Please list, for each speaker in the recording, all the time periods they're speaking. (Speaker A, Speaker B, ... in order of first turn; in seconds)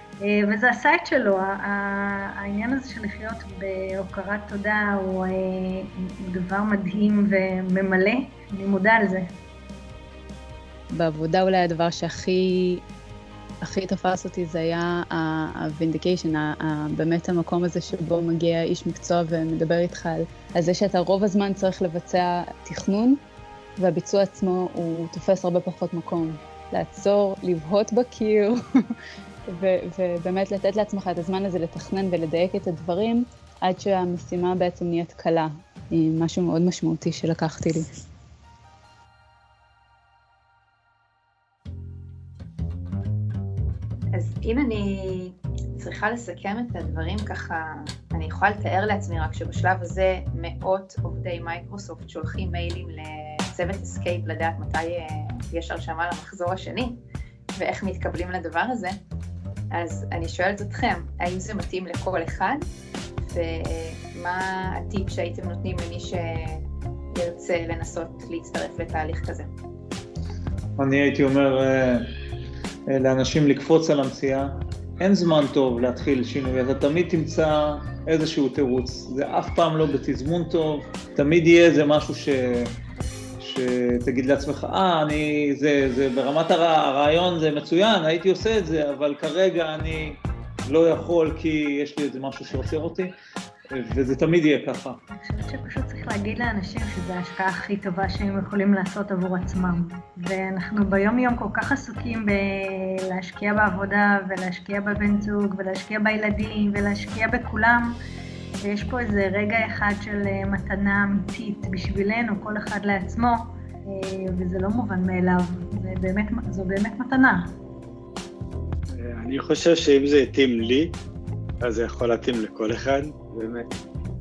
Speaker A: 0.2-9.3, 95.1-108.0, 108.6-117.5
Speaker B: 10.9-12.8, 13.6-23.2, 23.8-28.6, 29.5-37.9
Speaker C: 44.1-57.0, 57.5-59.0, 59.7-62.6, 63.2-69.5
Speaker D: 70.8-72.1, 72.9-82.7, 83.4-93.1, 93.7-95.0
Speaker E: 118.9-120.9, 121.6-123.7